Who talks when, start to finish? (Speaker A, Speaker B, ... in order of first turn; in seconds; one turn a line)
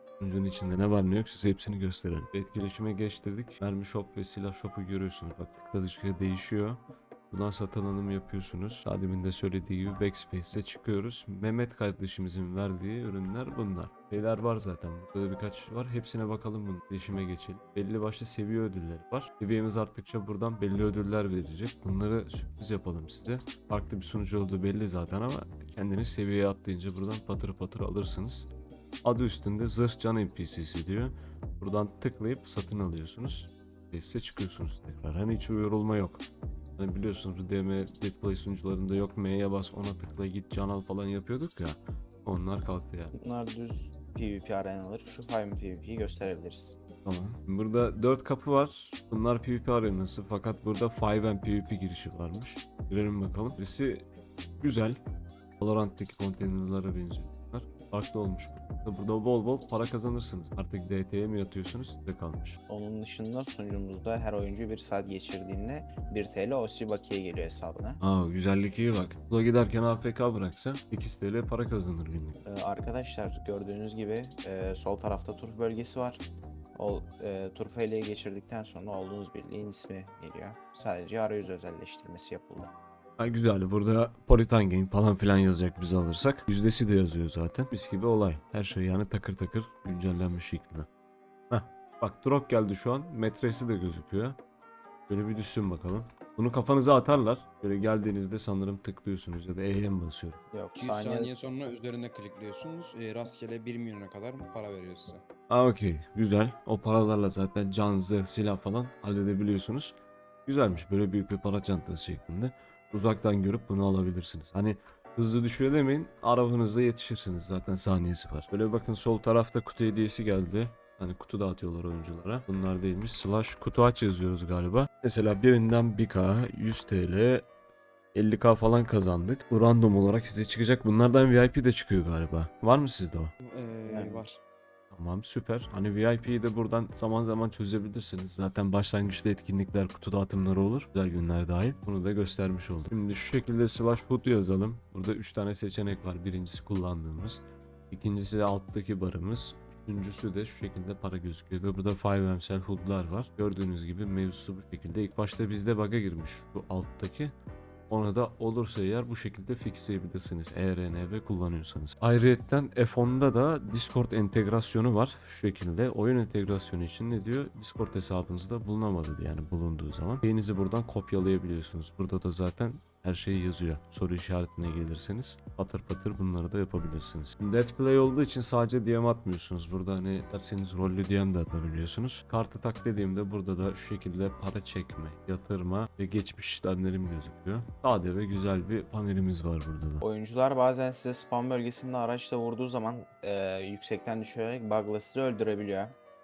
Speaker A: 0.2-28.5
Speaker A: 29.0-36.2
Speaker A: 36.8-43.1
Speaker B: 43.1-46.8
Speaker A: 47.0-54.1
Speaker A: 54.6-55.0
Speaker A: 55.6-62.6
Speaker B: 62.7-68.0
Speaker A: 68.0-72.4
Speaker B: 72.5-76.2
Speaker B: 76.8-82.7
Speaker A: 83.2-90.9
Speaker A: 91.5-94.4
Speaker A: 95.1-100.4
Speaker B: 100.5-101.3
Speaker C: 100.8-105.2
Speaker A: 105.5-110.0
Speaker A: 110.5-127.5
Speaker A: 128.1-133.3
Speaker C: 133.4-134.4
Speaker B: 133.9-134.2
Speaker A: 134.9-157.3
Speaker A: 157.9-190.0
Speaker B: 190.0-196.0